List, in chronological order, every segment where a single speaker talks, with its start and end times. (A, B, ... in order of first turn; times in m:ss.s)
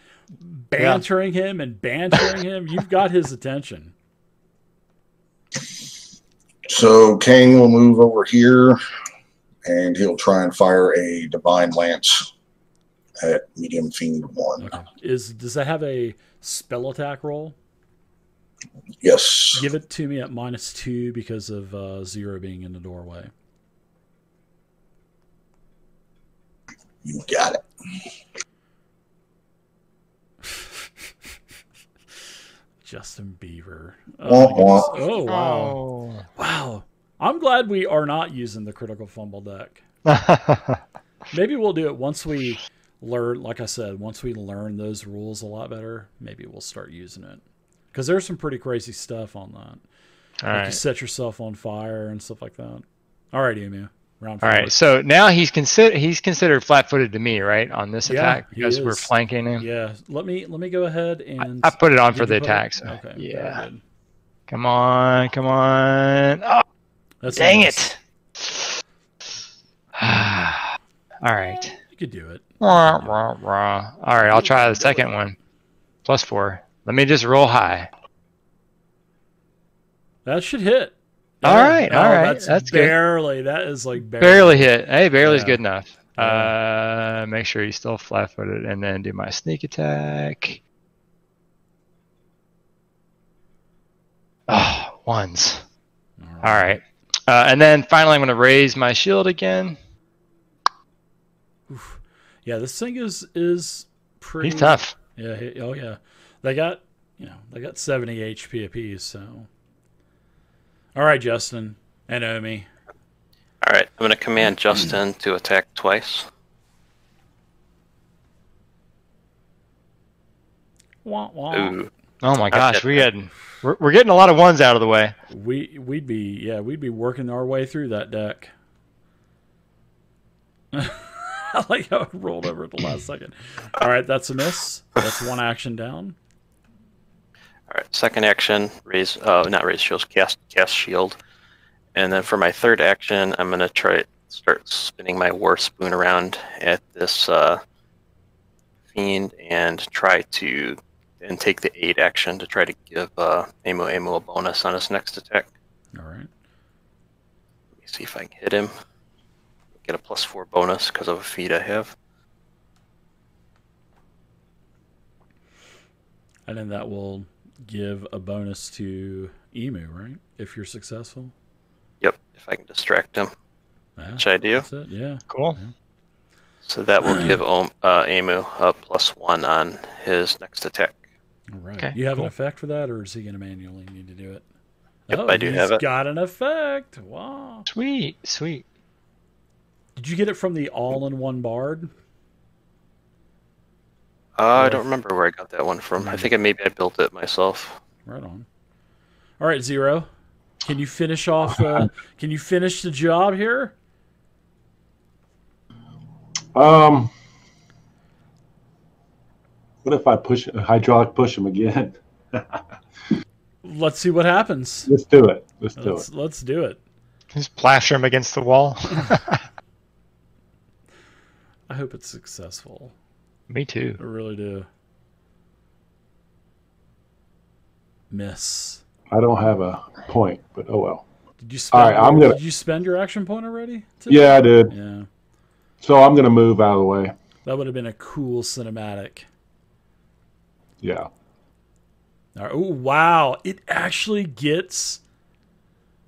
0:00.4-0:03.9 A
0:06.7-0:08.8 B
0:09.6-0:12.3 B
0:13.2-0:14.7 B
0:14.6-0:17.6 A
0:19.0-0:19.7 B
0:19.5-0:23.3 A
0:27.0-0:27.6 B
0:32.8-0:35.8 A
0:34.2-0:35.0 B
0:35.3-0:36.3 C
0:36.4-0:39.8 A
0:40.1-0:40.8 C
0:41.3-0:47.4 A
0:47.9-0:49.8 A
0:50.4-0:50.8 C
0:50.5-0:54.7 A
0:54.4-0:59.6 C
0:58.1-1:03.8 A
1:01.6-1:03.6 C
1:04.5-1:06.6 C
1:07.2-1:07.9 A
1:07.4-1:07.9 C
1:10.0-1:11.8 C
1:11.9-1:13.2 A
1:12.6-1:15.4 C
1:14.3-1:15.0 A
1:16.1-1:17.9 C
1:20.2-1:25.6 A
1:21.4-1:23.0 C
1:24.2-1:30.6 C
1:26.2-1:26.5 A
1:34.5-1:35.6 C
1:36.2-1:36.8 A
1:36.4-1:39.8 C
1:41.7-1:49.5 A
1:44.4-1:44.9 C
1:51.0-1:52.7 A
1:53.6-1:56.3 D
2:01.0-2:01.8 A
2:01.5-2:01.9 D
2:02.2-2:05.2 C
2:02.5-2:03.0 D
2:05.3-2:08.5 A
2:10.7-2:16.2 A
2:17.7-2:21.2 D
2:22.0-2:27.6 D
2:28.9-2:35.5 D
2:36.0-2:36.3 A
2:37.8-2:38.7 D
2:39.8-2:42.0 D
2:46.5-2:51.3 A
2:52.0-2:53.3 D
2:54.0-2:55.7 A
2:54.2-2:54.6 D
2:55.3-2:55.6 C
2:56.7-3:01.0 D
2:57.1-2:57.4 A
3:01.5-3:04.4 A
3:01.8-3:02.3 C
3:05.1-3:07.7 A
3:05.1-3:05.8 D
3:07.7-3:08.6 C
3:10.0-3:11.9 A
3:14.4-3:17.8 D
3:14.6-3:14.8 A
3:16.0-3:16.3 A
3:18.1-3:18.5 A
3:19.4-3:20.1 A
3:20.6-3:23.7 A
3:26.5-3:27.1 E
3:29.8-3:32.6 E
3:33.6-3:34.9 A
3:34.9-3:36.1 E
3:35.8-3:36.8 A
3:37.4-3:39.4 C
3:41.7-3:42.9 A
3:43.5-3:44.0 C
3:44.0-3:44.7 A
3:48.1-3:48.8 A
3:49.1-3:51.1 E
3:51.4-3:55.1 A
3:51.7-3:52.4 E
3:54.1-3:54.7 E
3:55.8-3:57.1 E
3:57.4-3:59.3 A
4:00.8-4:01.1 E
4:02.4-4:05.0 A